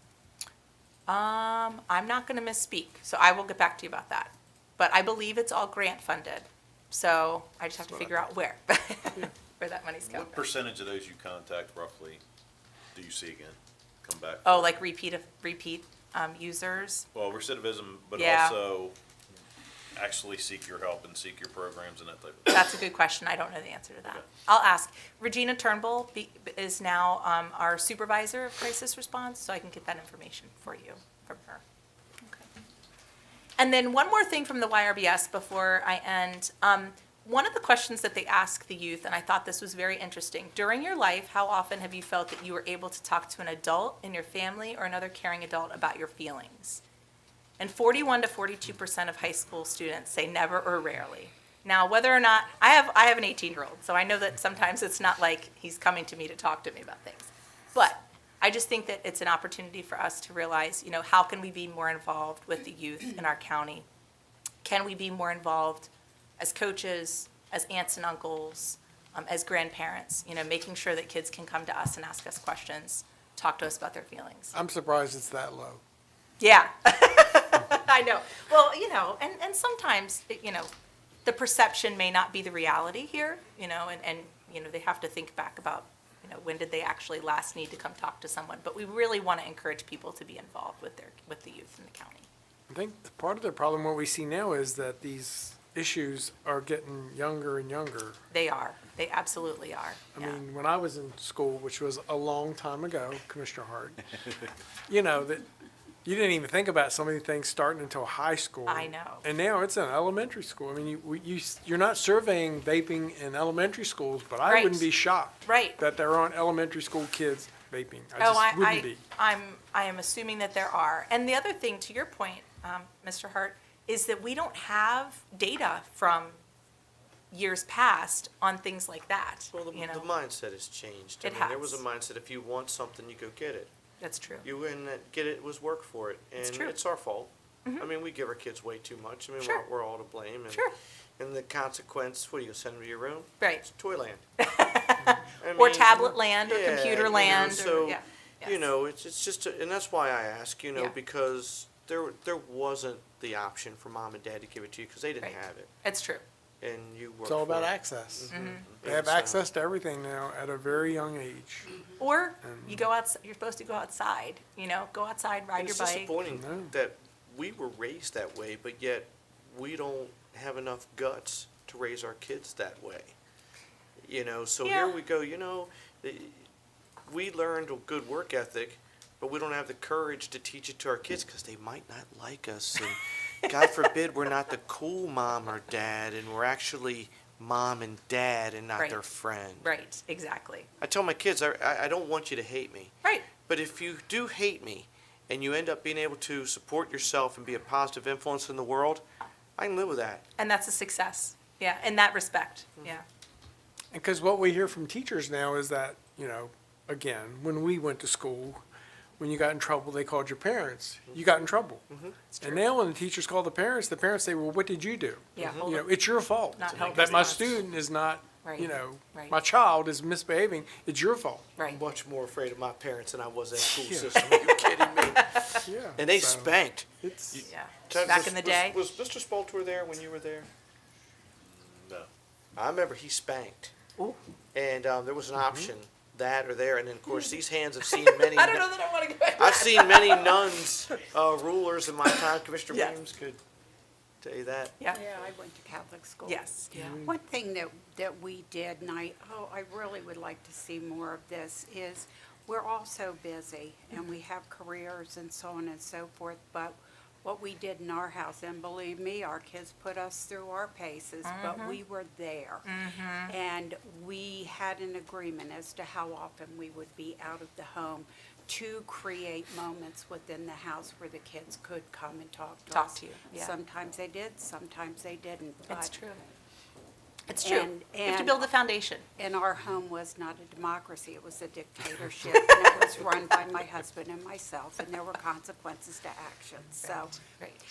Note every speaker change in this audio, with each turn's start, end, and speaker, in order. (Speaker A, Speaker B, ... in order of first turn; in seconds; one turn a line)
Speaker A: 1.1-10.5
Speaker B: 10.0-12.2
Speaker B: 12.9-14.8
Speaker A: 14.4-17.1
Speaker B: 17.1-18.9
Speaker A: 18.2-18.6
Speaker B: 19.9-22.6
Speaker A: 22.5-31.6
Speaker A: 33.6-46.8
Speaker A: 47.6-63.9
Speaker A: 64.6-74.5
Speaker C: 74.5-75.8
Speaker A: 76.4-80.7
Speaker A: 81.2-92.3
Speaker C: 92.7-98.2
Speaker A: 98.3-100.4
Speaker C: 100.2-104.0
Speaker C: 104.9-105.5
Speaker C: 106.0-119.0
Speaker A: 108.7-109.2
Speaker A: 114.5-114.9
Speaker A: 115.4-115.8
Speaker A: 118.2-126.4
Speaker A: 127.3-130.1
Speaker D: 129.5-133.7
Speaker A: 131.2-131.8
Speaker A: 134.0-134.5
Speaker D: 134.4-140.7
Speaker A: 136.4-136.8
Speaker A: 140.5-140.8
Speaker D: 141.2-144.2
Speaker A: 143.4-143.7
Speaker A: 144.4-148.7
Speaker D: 145.4-155.7
Speaker A: 155.2-156.2
Speaker D: 156.6-157.4
Speaker C: 157.3-158.3
Speaker E: 157.4-157.7
Speaker D: 158.2-159.4
Speaker A: 158.3-158.7
Speaker E: 158.3-159.0
Speaker C: 158.8-161.7
Speaker A: 162.0-166.2
Speaker C: 162.4-162.9
Speaker D: 165.6-173.2
Speaker E: 166.1-166.4
Speaker C: 166.3-166.7
Speaker D: 174.0-176.5
Speaker A: 174.7-175.0
Speaker D: 177.1-189.7
Speaker A: 188.8-189.0
Speaker A: 189.6-190.7
Speaker D: 190.8-199.0
Speaker A: 193.0-193.3
Speaker D: 199.6-200.2
Speaker A: 200.4-203.1
Speaker C: 203.9-208.6
Speaker C: 209.2-211.8
Speaker D: 211.9-212.6
Speaker C: 212.4-221.5
Speaker A: 215.4-215.8
Speaker D: 215.4-215.8
Speaker A: 216.6-217.7
Speaker D: 216.6-217.3
Speaker A: 218.4-219.4
Speaker D: 221.7-230.5
Speaker C: 223.6-224.5
Speaker A: 225.2-225.6
Speaker C: 225.7-227.4
Speaker A: 227.4-228.8
Speaker B: 231.4-232.1
Speaker D: 232.6-233.7
Speaker D: 234.5-238.7
Speaker A: 237.9-240.4
Speaker D: 239.4-243.4
Speaker D: 244.2-244.8
Speaker E: 244.9-262.7
Speaker A: 246.2-247.0
Speaker C: 246.7-247.1
Speaker A: 261.2-261.8
Speaker A: 262.6-263.3
Speaker E: 263.3-275.9
Speaker A: 272.7-273.6
Speaker A: 275.7-276.2
Speaker A: 277.3-279.1
Speaker E: 277.4-278.5
Speaker E: 279.2-287.2
Speaker A: 286.8-287.6